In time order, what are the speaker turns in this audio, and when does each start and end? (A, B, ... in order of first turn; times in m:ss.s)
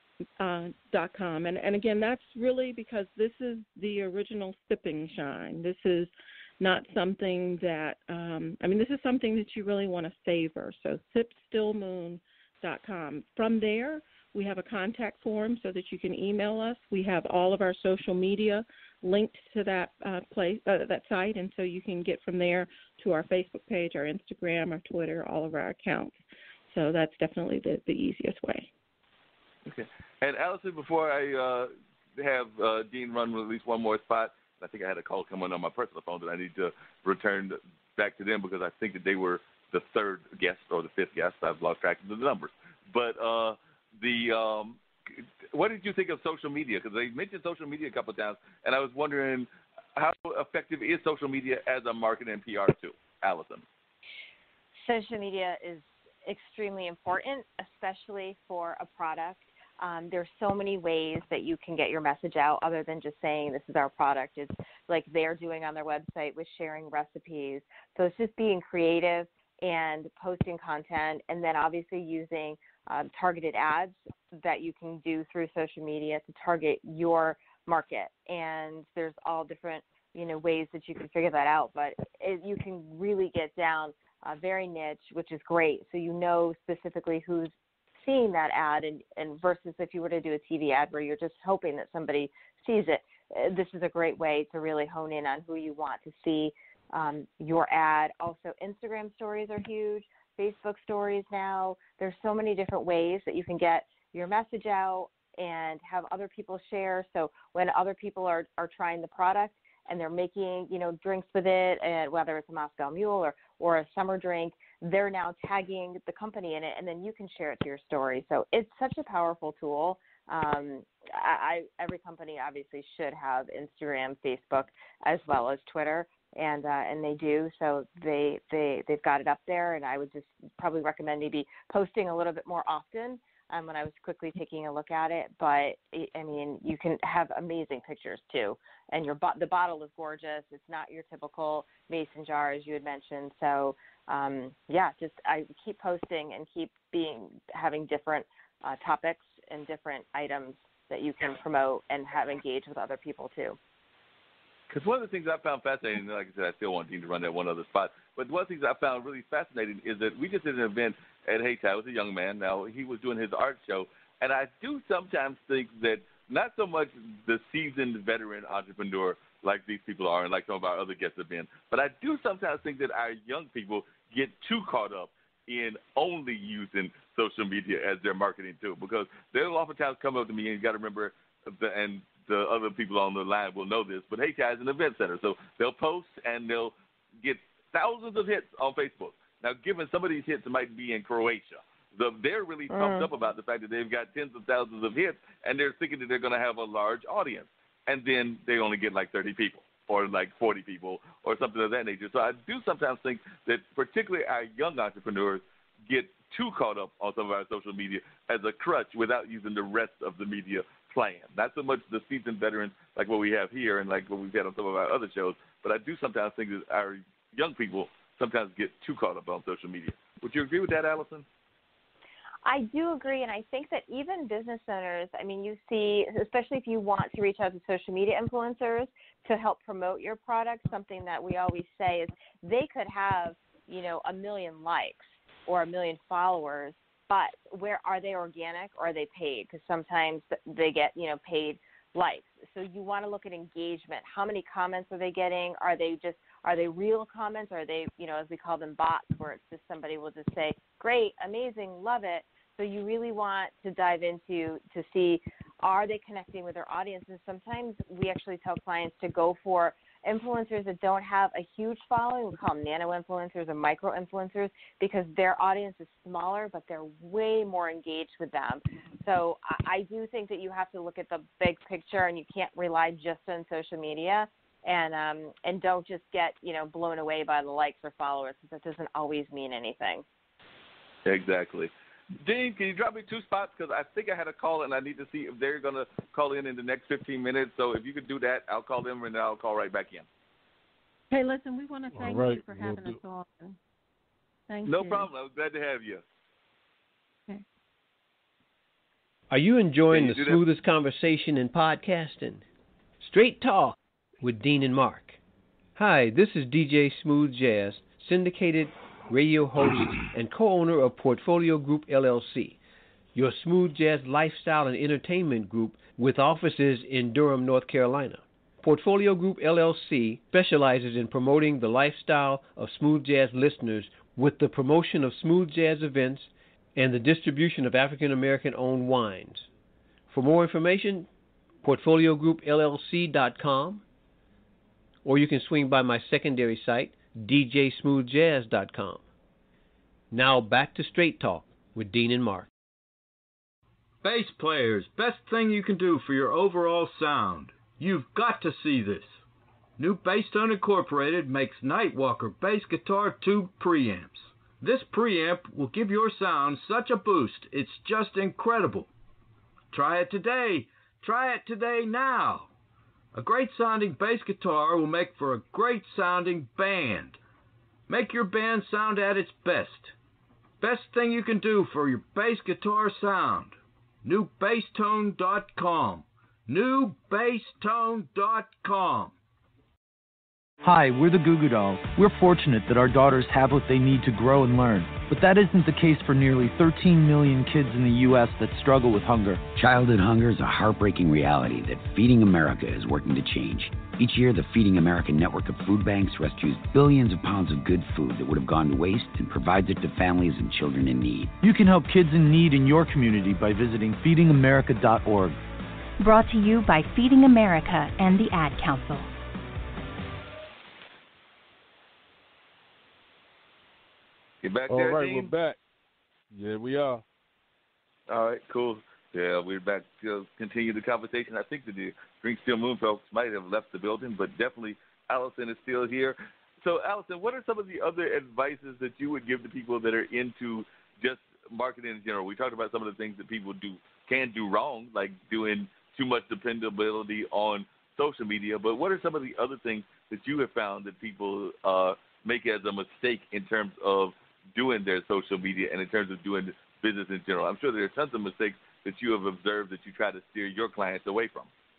0:00.4-0:26.2 A
0:26.7-0:28.7 A
0:29.6-0:53.6 B
0:54.8-2:33.6 C
2:34.7-3:41.2 B
3:12.7-3:13.1 C
3:42.4-4:40.0 C
4:41.0-4:41.7 B
4:42.2-4:50.0 B
4:51.1-4:53.6 A
4:51.9-4:53.0 D
4:54.5-4:55.1 A
4:54.6-4:56.0 B
4:59.3-5:02.4 E
4:59.9-5:00.4 B
5:03.0-5:05.2 E
5:05.8-5:12.6 E
5:13.1-5:29.5 E
5:30.1-5:31.1 E
5:31.6-5:33.8 E
5:35.0-5:39.0 E
5:40.1-5:42.5 E
5:44.0-5:49.2 F
5:49.8-5:58.9 F
5:59.7-6:02.5 F
6:03.1-6:07.2 F
6:07.9-6:09.9 F
6:10.6-6:19.1 F
6:20.6-6:29.5 G
6:29.5-6:41.3 H
6:41.4-6:45.4 G
6:46.0-6:49.1 I
6:54.4-6:55.3 B
6:54.7-6:55.6 D
6:56.3-6:57.0 D
6:58.1-7:31.5 B